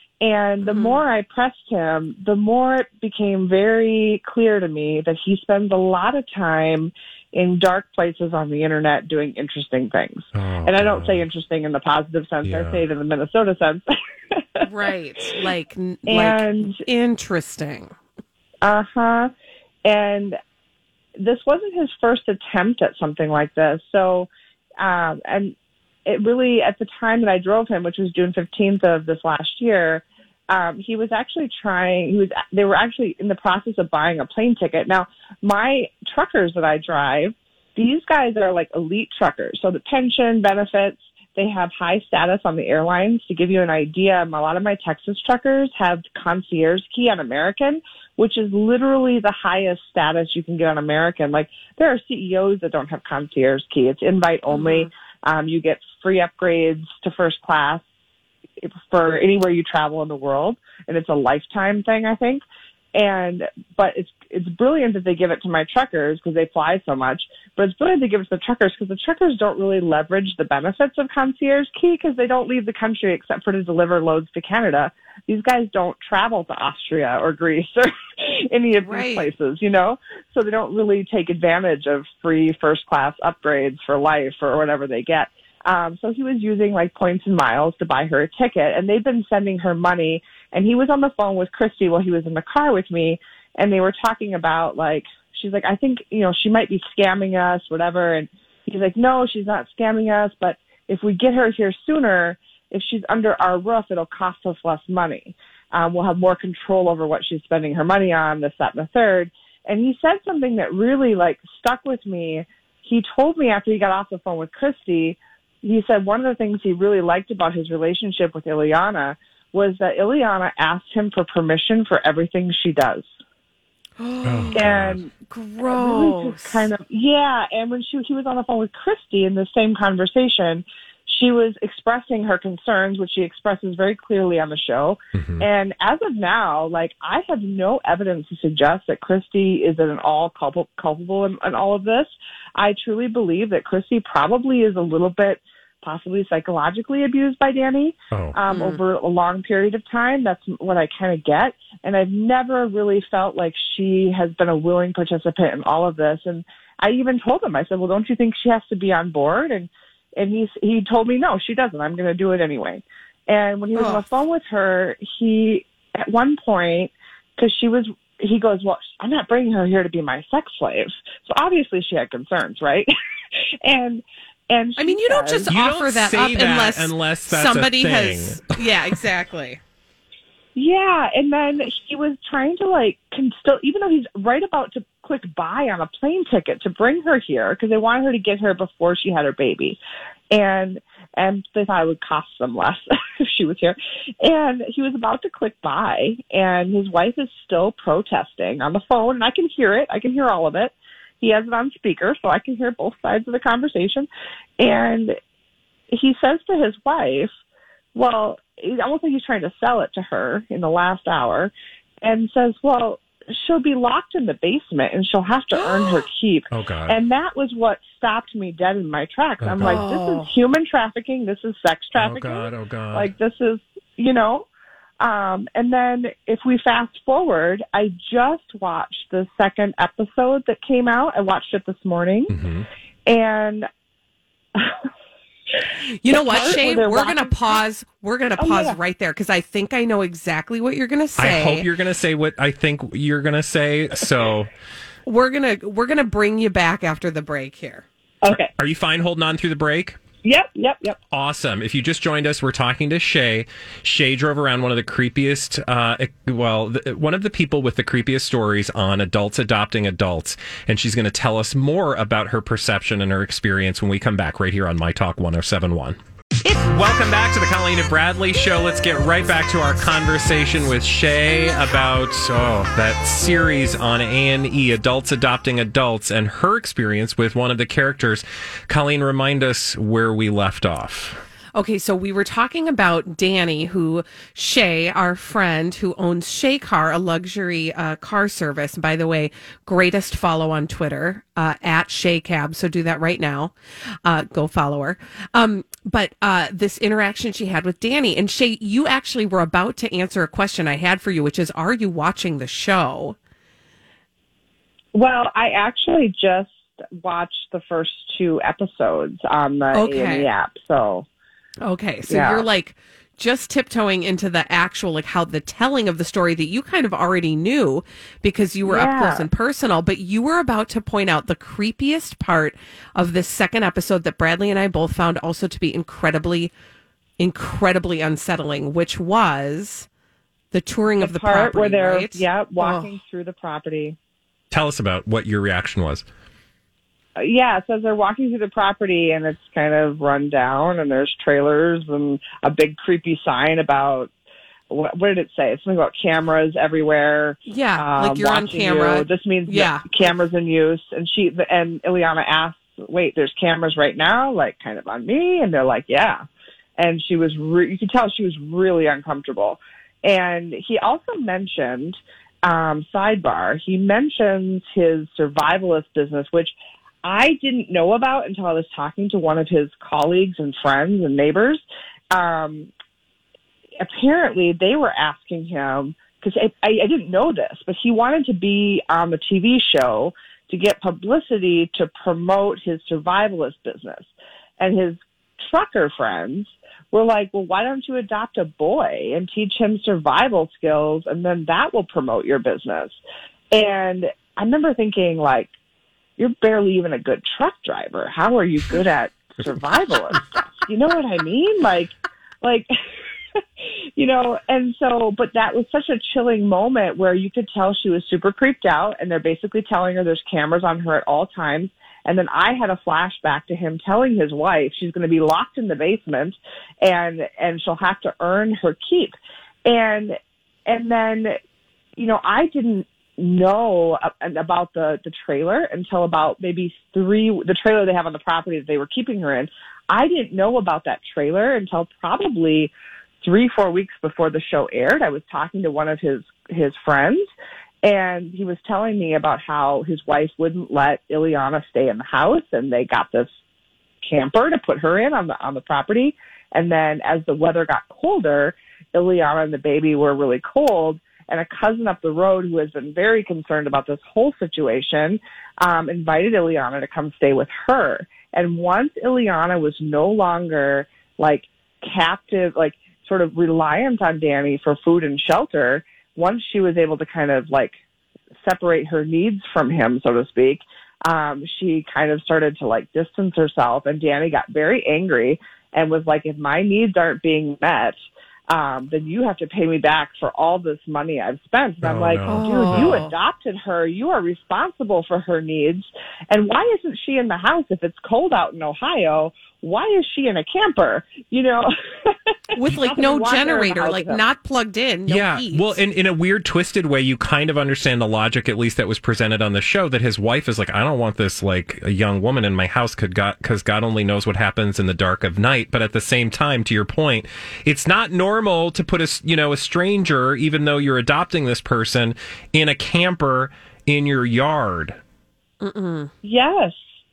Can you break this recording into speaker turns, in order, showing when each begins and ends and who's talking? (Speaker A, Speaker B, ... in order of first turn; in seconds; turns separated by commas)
Speaker A: 0.2-14.7, Speaker B: 0.7-1.0, Speaker C: 10.3-11.2, Speaker C: 12.4-12.8, Speaker B: 14.6-17.9, Speaker A: 16.1-16.8, Speaker A: 18.6-19.3, Speaker A: 19.9-20.4, Speaker A: 21.2-24.3, Speaker A: 24.8-25.6, Speaker A: 26.1-57.8, Speaker B: 54.5-54.9, Speaker A: 58.6-62.4, Speaker A: 62.9-123.1, Speaker B: 78.8-79.3, Speaker B: 124.0-124.7, Speaker C: 124.2-125.0, Speaker A: 124.5-125.1, Speaker B: 125.3-126.7, Speaker A: 125.6-172.9, Speaker C: 135.2-135.5, Speaker B: 148.5-148.8, Speaker B: 163.8-164.0, Speaker A: 173.6-175.5, Speaker B: 174.8-179.6, Speaker C: 175.5-178.6, Speaker A: 180.6-189.8, Speaker A: 190.3-204.1, Speaker A: 204.6-205.2, Speaker A: 205.9-207.3, Speaker A: 207.9-211.5, Speaker A: 212.0-224.5, Speaker B: 215.5-216.0, Speaker C: 216.5-217.0, Speaker C: 219.4-219.8, Speaker B: 219.6-220.3, Speaker C: 222.0-223.1, Speaker A: 225.0-232.3, Speaker C: 232.3-232.7, Speaker A: 233.1-233.7, Speaker B: 235.9-241.7, Speaker A: 236.1-237.6, Speaker A: 238.4-238.8, Speaker C: 241.2-244.5, Speaker B: 245.1-247.8, Speaker A: 248.2-248.5, Speaker C: 248.3-250.0, Speaker A: 250.2-251.0, Speaker C: 251.1-281.2, Speaker B: 281.6-293.5, Speaker B: 294.1-303.2, Speaker A: 304.9-311.1, Speaker B: 309.7-310.3, Speaker B: 311.6-326.5, Speaker A: 312.1-312.4, Speaker A: 318.6-319.3, Speaker B: 327.2-329.9, Speaker B: 330.5-332.9, Speaker A: 331.0-334.0, Speaker C: 334.5-336.0, Speaker A: 337.2-344.1, Speaker A: 344.7-356.2, Speaker B: 347.5-349.9, Speaker A: 356.8-372.7, Speaker A: 373.8-393.0, Speaker A: 393.5-395.5, Speaker A: 396.2-402.7, Speaker A: 403.6-419.1, Speaker A: 419.7-421.4, Speaker A: 422.0-432.7, Speaker A: 433.2-437.3, Speaker A: 437.8-443.3, Speaker A: 444.0-467.8, Speaker A: 468.4-478.0, Speaker A: 478.5-494.2, Speaker C: 481.8-483.0, Speaker B: 482.3-483.1, Speaker B: 492.6-495.8, Speaker C: 495.1-515.0, Speaker B: 515.6-516.1, Speaker A: 516.2-516.8